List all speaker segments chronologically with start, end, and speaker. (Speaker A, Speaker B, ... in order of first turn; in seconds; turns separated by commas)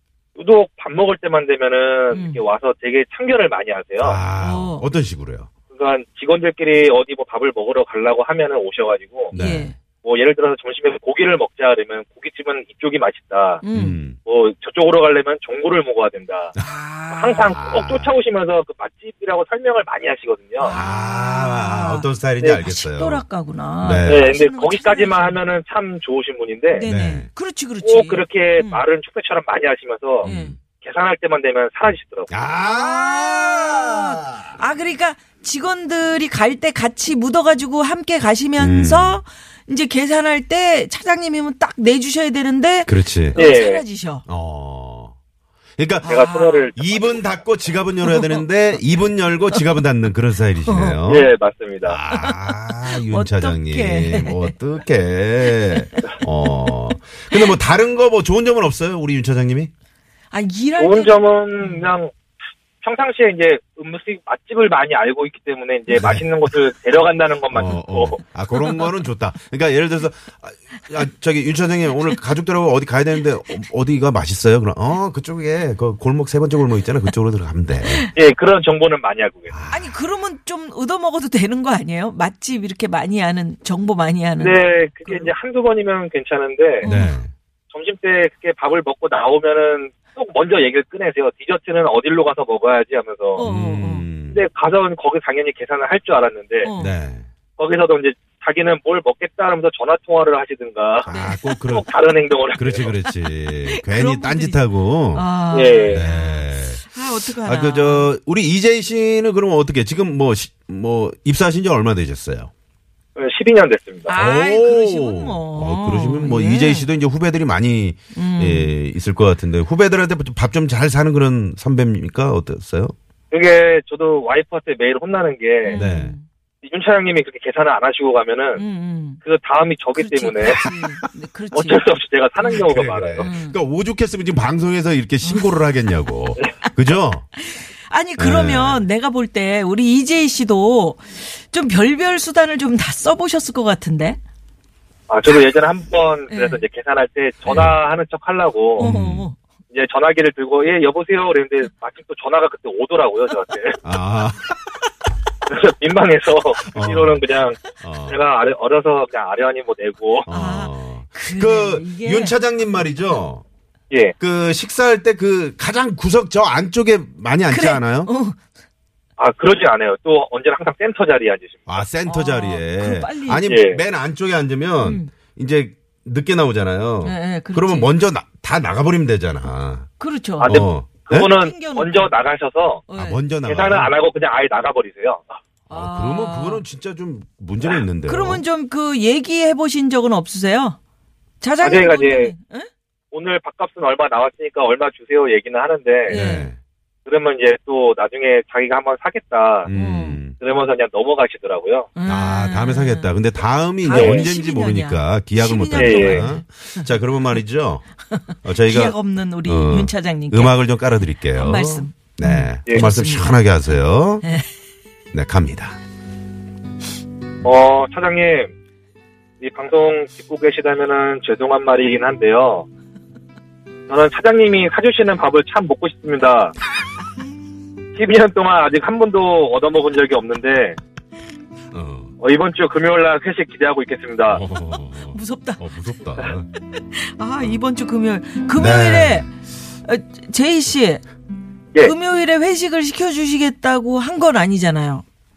Speaker A: 0.4-4.2, Speaker B: 2.1-2.4, Speaker C: 4.0-5.5, Speaker B: 4.4-4.9, Speaker A: 5.7-9.3, Speaker C: 9.3-9.7, Speaker B: 9.3-9.8, Speaker A: 10.0-13.6, Speaker B: 13.6-14.0, Speaker C: 13.7-14.2, Speaker A: 14.3-16.5, Speaker B: 16.6-17.6, Speaker A: 17.1-20.8, Speaker C: 17.6-18.1, Speaker B: 20.6-22.1, Speaker C: 20.6-23.2, Speaker B: 22.6-25.4, Speaker C: 23.8-24.3, Speaker A: 24.1-26.9, Speaker B: 26.7-28.8, Speaker C: 26.9-27.3, Speaker A: 27.8-30.3, Speaker B: 30.2-30.5, Speaker C: 30.2-30.6, Speaker A: 30.8-32.5, Speaker C: 32.3-34.5, Speaker B: 32.6-44.2, Speaker C: 38.6-39.2, Speaker C: 42.9-43.4, Speaker A: 43.4-43.8, Speaker C: 44.3-45.2, Speaker C: 45.8-46.2, Speaker B: 46.0-46.8, Speaker A: 46.0-47.3, Speaker C: 46.8-51.3, Speaker B: 48.0-48.4, Speaker B: 49.5-49.8, Speaker B: 50.7-51.0, Speaker A: 51.1-52.0, Speaker C: 51.8-59.7, Speaker B: 52.1-54.5, Speaker B: 55.5-56.7, Speaker B: 60.3-61.9, Speaker A: 60.8-62.1, Speaker A: 62.8-68.2, Speaker C: 65.9-66.3, Speaker C: 67.5-78.1, Speaker A: 78.2-79.5, Speaker C: 79.5-80.0, Speaker B: 79.7-85.3, Speaker A: 84.4-86.9, Speaker B: 86.8-87.2, Speaker C: 86.8-87.3, Speaker A: 87.7-93.5, Speaker B: 93.4-94.1, Speaker C: 93.4-94.4, Speaker A: 94.3-96.7, Speaker B: 96.6-96.9, Speaker C: 96.8-97.3, Speaker A: 97.6-101.1, Speaker C: 101.0-101.9, Speaker B: 101.1-101.6, Speaker A: 101.6-102.9, Speaker C: 102.5-105.3, Speaker B: 103.0-108.1, Speaker A: 105.5-106.0, Speaker C: 105.9-112.5, Speaker A: 113.2-114.2, Speaker B: 114.1-116.9, Speaker C: 114.2-123.0, Speaker B: 118.1-118.7, Speaker A: 123.3-125.8, Speaker B: 125.6-126.2, Speaker C: 125.7-126.2, Speaker A: 126.6-128.6, Speaker B: 128.6-129.2, Speaker A: 129.2-130.7, Speaker B: 130.0-131.9, Speaker C: 130.5-131.1, Speaker A: 131.5-133.3, Speaker C: 132.5-137.3, Speaker B: 133.2-133.6, Speaker B: 135.2-135.6, Speaker B: 137.4-144.2, Speaker C: 138.2-138.8, Speaker A: 145.1-148.9, Speaker B: 146.3-146.6, Speaker B: 148.8-149.4, Speaker C: 148.8-149.3, Speaker A: 149.7-153.8, Speaker C: 153.8-154.9, Speaker A: 155.5-160.3, Speaker C: 156.7-157.2, Speaker C: 157.8-158.2, Speaker B: 160.3-162.4, Speaker C: 160.3-163.4, Speaker C: 164.2-168.1, Speaker B: 167.5-168.4, Speaker A: 169.2-171.8, Speaker C: 171.7-179.9, Speaker B: 172.0-173.6, Speaker A: 173.5-173.8, Speaker B: 174.8-175.1, Speaker B: 177.0-177.9, Speaker B: 180.0-180.7, Speaker A: 180.4-182.8, Speaker C: 180.4-181.3, Speaker B: 181.3-182.1, Speaker B: 182.9-183.2, Speaker C: 182.9-183.9, Speaker A: 183.4-185.3, Speaker C: 185.7-188.4, Speaker B: 185.7-186.6, Speaker B: 188.1-190.8, Speaker B: 191.4-192.7, Speaker A: 191.6-192.3, Speaker A: 193.1-196.2, Speaker B: 196.1-196.5, Speaker C: 196.1-196.6, Speaker A: 197.1-199.7, Speaker C: 199.7-200.4, Speaker B: 199.7-200.2, Speaker A: 200.4-201.9, Speaker B: 201.9-203.1, Speaker C: 202.1-207.9, Speaker B: 203.8-206.9, Speaker A: 203.9-204.2, Speaker A: 205.8-206.3, Speaker B: 208.1-210.6, Speaker C: 208.4-214.2, Speaker B: 211.3-214.5, Speaker C: 215.1-215.8, Speaker A: 217.4-218.5, Speaker A: 219.4-222.7, Speaker A: 223.9-226.6, Speaker A: 228.0-230.8, Speaker C: 231.7-232.1, Speaker A: 232.2-234.4, Speaker C: 234.3-236.5, Speaker B: 234.5-235.7, Speaker B: 236.7-239.3, Speaker C: 238.6-239.3, Speaker B: 239.8-241.0, Speaker B: 241.8-245.0